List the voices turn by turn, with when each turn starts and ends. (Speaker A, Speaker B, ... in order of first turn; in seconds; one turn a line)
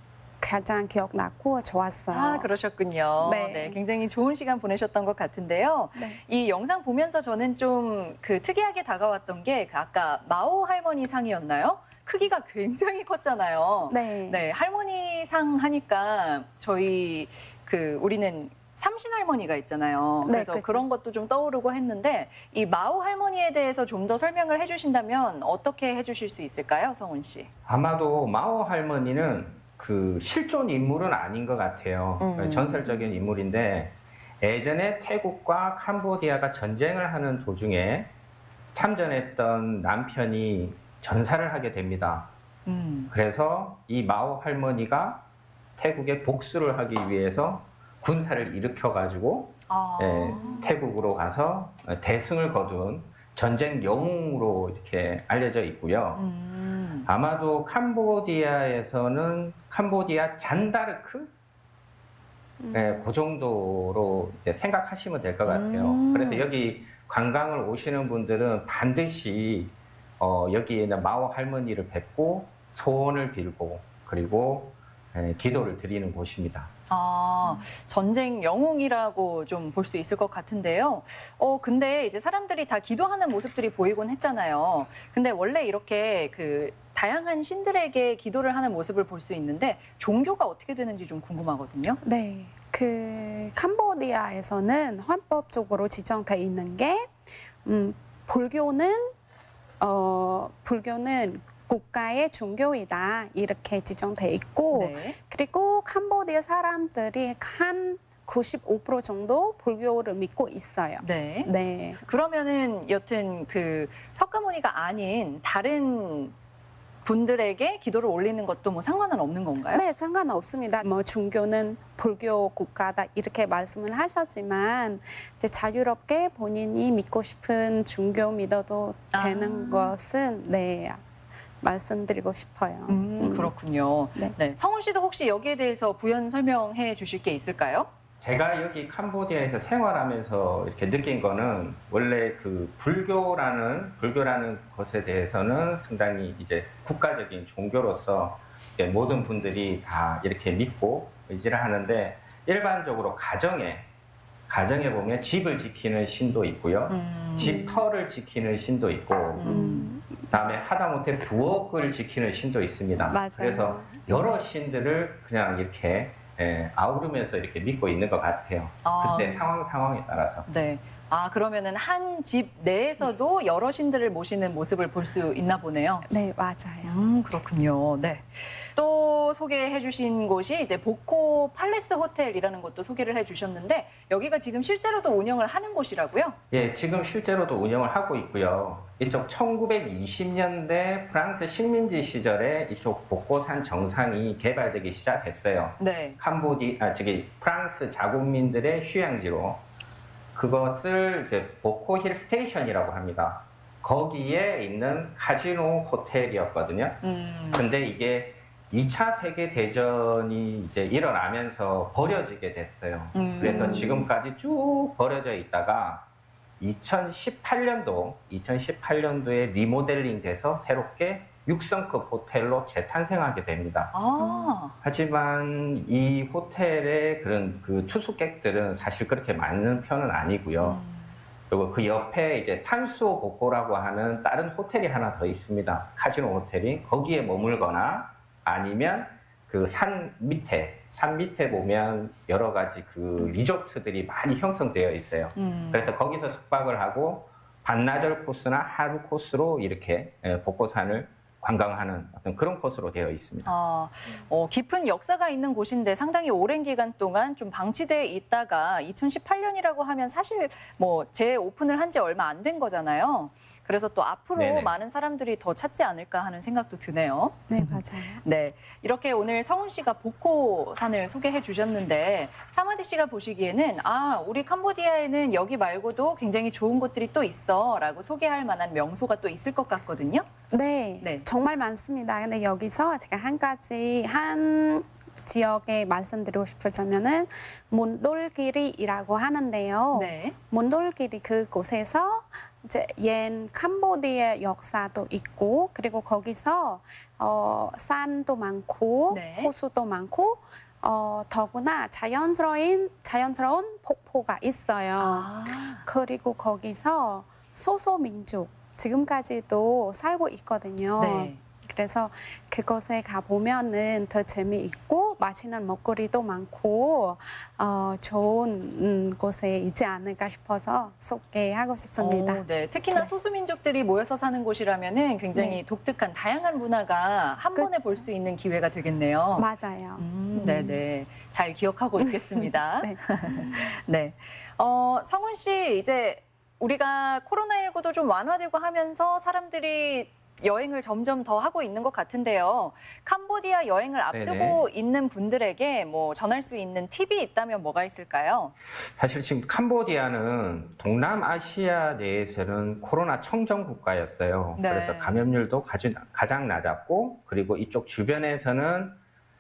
Speaker A: 0.4-2.5
Speaker B: 2.1-27.5
Speaker A: 3.2-3.8
Speaker A: 6.0-6.2
Speaker A: 13.9-14.4
Speaker A: 20.2-20.8
Speaker C: 27.7-38.1
Speaker B: 32.2-33.0
Speaker C: 38.8-42.3
Speaker B: 42.7-43.1
Speaker C: 43.1-45.2
Speaker C: 45.8-56.2
Speaker B: 49.7-50.7
Speaker B: 56.1-57.1
Speaker C: 57.1-61.3
Speaker A: 62.6-63.1
Speaker C: 62.7-76.7
Speaker B: 65.5-66.5
Speaker B: 76.9-92.0
Speaker A: 92.0-99.2
Speaker A: 99.8-112.0
Speaker B: 104.7-105.2
Speaker B: 111.0-116.3
Speaker B: 117.0-119.8
Speaker A: 119.7-131.0
Speaker B: 129.1-129.9
Speaker A: 131.6-133.5
Speaker B: 132.9-137.9
Speaker C: 138.2-153.9
Speaker C: 154.5-159.5
Speaker B: 156.9-157.8
Speaker B: 159.3-159.9
Speaker A: 159.4-160.4
Speaker C: 160.3-170.5
Speaker A: 163.1-164.0
Speaker B: 168.8-169.4
Speaker B: 170.5-176.1
Speaker A: 176.1-177.0
Speaker B: 176.8-186.4
Speaker C: 186.5-199.6
Speaker B: 195.8-196.2
Speaker C: 200.3-207.0
Speaker B: 207.0-207.7
Speaker C: 207.5-216.1
Speaker B: 213.1-214.0
Speaker C: 216.6-223.9
Speaker B: 223.9-224.8
Speaker C: 224.8-230.8
Speaker B: 230.6-231.2
Speaker C: 231.5-253.5
Speaker B: 245.3-245.9
Speaker B: 253.4-280.3
Speaker C: 264.4-264.7
Speaker A: 267.5-268.2
Speaker A: 280.5-323.1
Speaker B: 281.0-281.3
Speaker B: 289.9-290.4
Speaker B: 299.1-299.5
Speaker B: 305.0-305.8
Speaker B: 311.0-311.4
Speaker B: 322.0-329.5
Speaker A: 327.6-328.1
Speaker A: 329.4-330.8
Speaker B: 330.0-348.5
Speaker A: 332.8-333.7
Speaker C: 344.1-344.6
Speaker C: 348.9-359.0
Speaker B: 354.6-355.2